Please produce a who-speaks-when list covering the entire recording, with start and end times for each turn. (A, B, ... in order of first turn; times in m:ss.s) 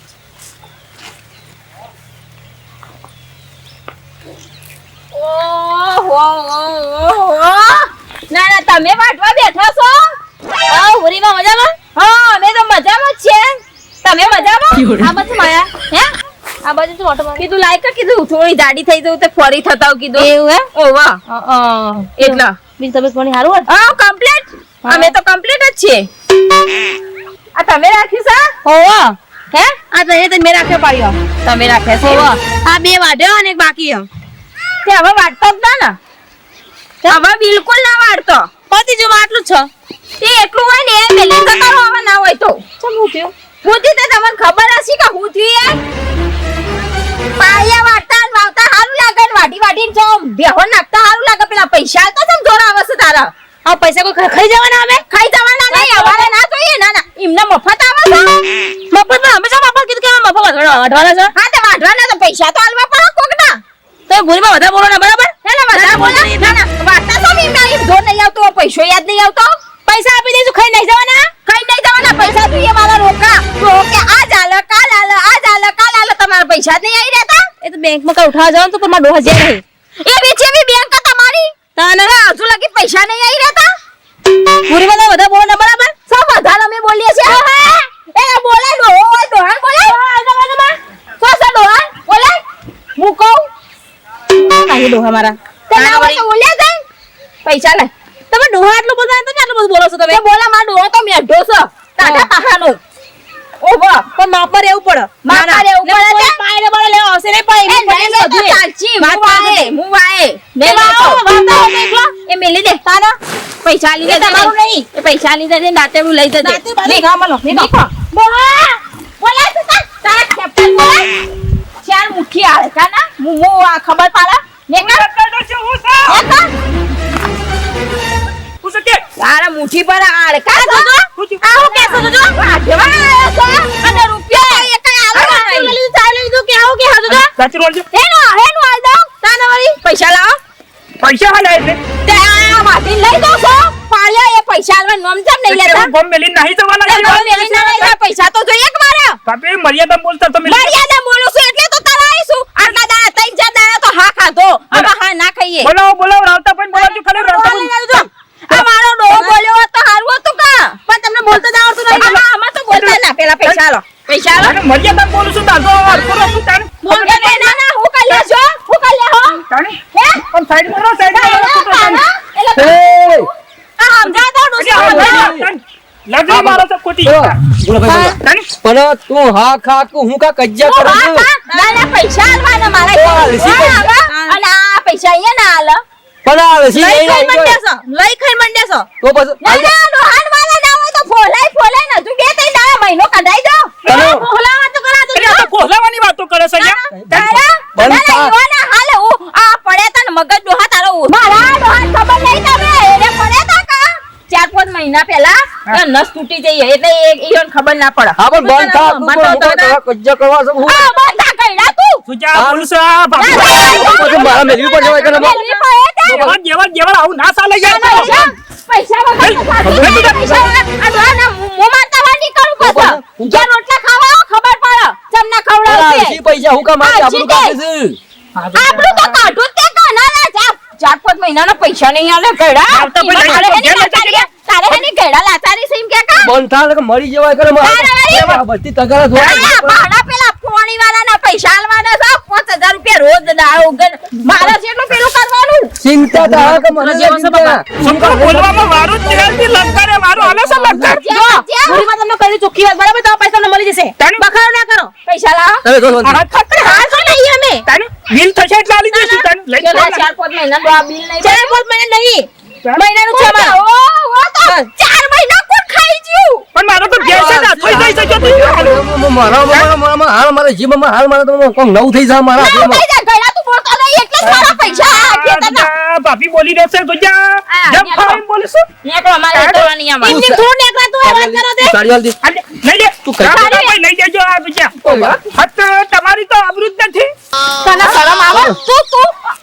0:05.1-0:10.2 A
0:10.7-0:11.8 B
0:12.0-0:15.1 A
0:14.8-0:15.7 B
0:16.6-0:17.5 B
0:17.4-0:21.2 A
0:20.2-0:20.7 B
0:21.3-0:23.7 B
0:22.2-0:22.5 A
0:23.7-0:26.1 A
0:24.8-0:25.1 B
0:27.6-0:28.6 A
0:28.6-0:31.2 B
0:31.4-0:32.3 A
0:32.0-0:34.1 B
0:34.8-0:36.0 A
0:37.1-0:38.5 A
0:38.7-0:39.7 B
0:40.2-0:42.6 A
0:42.8-0:43.3 B
0:43.6-0:45.8 A
0:47.4-0:53.3 A
0:53.6-0:55.0 B
0:55.1-0:58.4 A
0:55.7-0:56.3 B
0:58.9-1:01.3 B
1:01.3-1:03.6 A
1:04.1-1:06.6 B
1:05.4-1:09.6 A
1:09.9-1:11.3 B
1:11.5-1:17.5 A
1:12.0-1:12.4 B
1:17.6-1:19.6 B
1:20.0-1:23.7 A
1:21.8-1:22.1 B
1:24.7-1:25.9 B
1:26.1-1:30.7 A
1:29.8-1:30.6 B
1:31.2-1:32.4 A
1:33.0-1:33.5 B
1:34.4-1:35.1 A
1:34.8-1:36.2 B
1:35.7-1:36.8 A
1:37.4-1:37.9 A
1:38.3-1:40.2 B
1:40.1-1:42.8 A
1:42.0-1:42.3 B
1:43.6-1:44.1 A
1:44.2-1:49.7 B
1:45.2-1:46.4 A
1:47.7-1:51.2 A
1:50.6-1:52.1 B
1:52.3-1:52.8 A
1:52.8-1:53.2 B
1:53.6-1:57.8 A
1:54.0-1:54.9 B
1:56.4-1:58.8 B
1:59.2-2:01.1 A
2:01.8-2:05.1 A
2:04.8-2:06.2 C
2:06.1-2:06.5 A
2:08.6-2:09.0 C
2:09.2-2:11.0 A
2:10.5-2:12.4 B
2:11.2-2:11.6 C
2:11.5-2:15.8 A
2:13.8-2:17.3 B
2:17.1-2:17.9 C
2:17.9-2:19.1 A
2:19.2-2:19.8 B
2:19.8-2:20.4 A
2:21.0-2:21.8 C
2:22.0-2:25.9 A
2:25.5-2:27.2 C
2:26.9-2:29.2 A
2:27.0-2:28.0 B
2:29.2-2:30.8 C
2:30.4-2:35.7 A
2:35.6-2:37.7 C
2:36.7-2:39.4 B
2:37.9-2:40.8 A
2:40.9-2:42.2 B
2:41.9-2:44.6 A
2:42.7-2:43.6 C
2:44.4-2:46.7 C
2:46.0-2:47.6 B
2:46.9-2:49.4 A
2:49.5-2:52.0 C
2:49.9-2:50.2 A
2:51.1-2:53.3 A
2:52.6-2:53.3 D
2:53.8-2:55.3 B
2:53.9-2:55.3 A
2:54.6-2:57.4 C
2:54.8-2:55.5 D
2:56.3-3:01.3 D
2:57.9-2:58.2 B
2:58.2-2:58.5 C
3:00.6-3:05.8 A
3:01.5-3:01.8 B
3:02.9-3:03.8 D
3:04.0-3:04.4 B
3:06.2-3:07.6 D
3:06.7-3:08.9 B
3:09.0-3:09.7 D
3:09.4-3:13.7 A
3:13.9-3:14.1 C
3:13.9-3:14.3 D
3:13.9-3:15.5 B
3:15.1-3:17.4 C
3:17.1-3:28.2 A
3:17.8-3:18.3 D
3:28.2-3:30.9 D
3:28.3-3:29.6 B
3:29.2-3:29.8 A
3:30.6-3:32.0 A
3:32.1-3:34.3 C
3:32.3-3:32.7 D
3:33.2-3:36.4 A
3:33.5-3:35.6 B
3:33.8-3:35.4 D
3:36.1-3:38.2 C
3:37.6-3:46.2 A
3:37.7-3:38.2 B
3:39.2-3:40.4 C
3:39.6-3:40.5 D
3:42.6-3:43.5 D
3:45.7-3:48.0 D
3:46.8-3:47.6 A
3:48.4-3:49.2 C
3:48.6-3:56.3 A
3:52.7-3:54.3 C
3:56.2-3:59.8 D
3:57.6-3:58.4 A
3:59.2-4:05.7 A
4:05.8-4:10.9 D
4:06.1-4:07.6 B
4:07.8-4:11.0 C
4:10.8-4:14.9 B
4:10.8-4:11.9 A
4:14.0-4:14.3 C
4:15.1-4:15.6 A
4:15.6-4:16.2 D
4:16.0-4:17.0 C
4:16.4-4:17.6 B
4:17.7-4:20.1 C
4:18.8-4:19.2 B
4:19.6-4:21.6 A
4:21.2-4:22.3 B
4:22.8-4:23.6 B
4:22.8-4:26.4 A
4:24.4-4:24.7 B
4:26.5-4:28.8 C
4:27.0-4:32.8 D
4:32.4-4:35.7 A
4:34.2-4:38.7 C
4:37.5-4:38.2 A
4:38.8-4:40.3 A
4:39.3-4:39.7 C
4:40.0-4:41.8 B
4:40.1-4:40.4 D
4:41.0-4:42.2 D
4:42.2-4:44.8 C
4:43.2-4:43.8 A
4:44.8-4:45.2 A
4:44.8-4:45.2 D
4:45.3-4:47.1 C
4:47.6-4:49.2 B